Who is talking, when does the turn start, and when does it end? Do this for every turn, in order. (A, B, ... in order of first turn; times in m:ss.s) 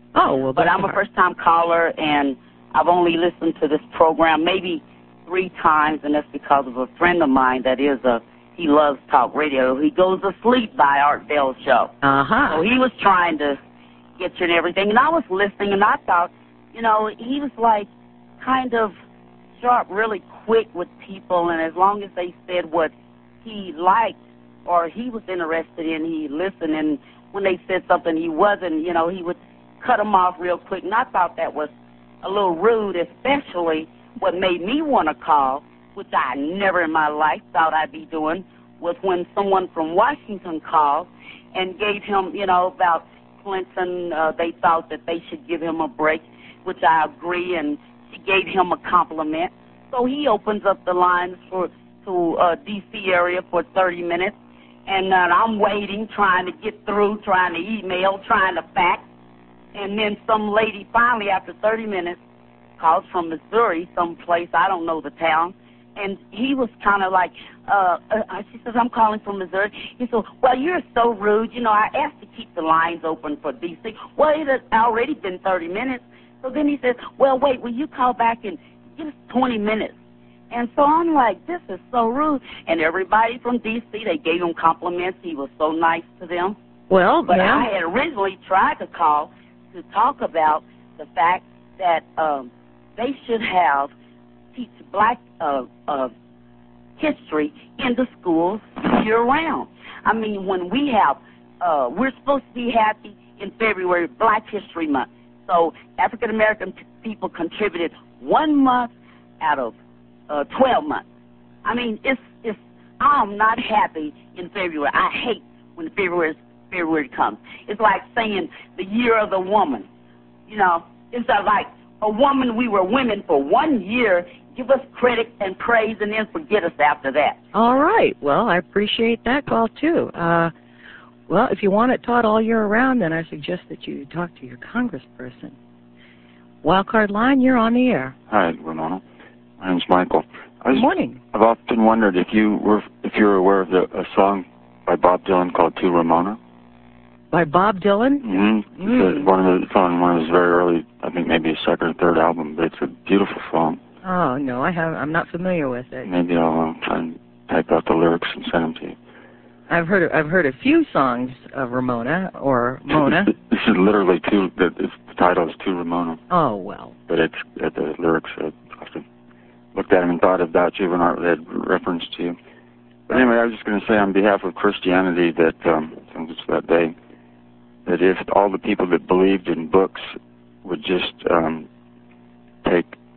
0:00.1-0:01.0 A
0:00.5-0:11.9 B
0:12.0-0:12.6 A
0:12.5-0:13.6 B
0:14.2-0:17.9 B
0:18.4-0:18.9 B
0:19.6-0:31.7 B
0:32.2-0:54.3 B
0:54.9-0:59.0 B
0:59.7-1:02.2 B
1:02.8-1:19.9 B
1:20.5-1:26.6 B
1:26.9-1:27.7 A
1:27.3-1:33.9 B
1:34.5-1:36.1 B
1:37.0-1:49.8 B
1:50.3-1:51.0 B
1:51.6-1:59.9 B
2:00.5-2:07.4 B
2:07.5-2:10.5 A
2:11.3-2:15.6 A
2:16.6-2:18.2 A
2:18.3-2:19.0 C
2:19.6-2:26.4 C
2:20.7-2:21.2 A
2:27.3-2:29.3 A
2:28.2-2:33.8 C
2:34.0-2:36.1 A
2:36.0-2:39.0 C
2:39.7-2:43.3 A
2:43.3-2:46.2 C
2:46.3-2:47.0 A
2:47.1-2:49.0 C
2:49.7-2:52.4 C
2:53.1-2:57.0 C
2:57.8-3:01.7 C
3:02.6-3:03.0 C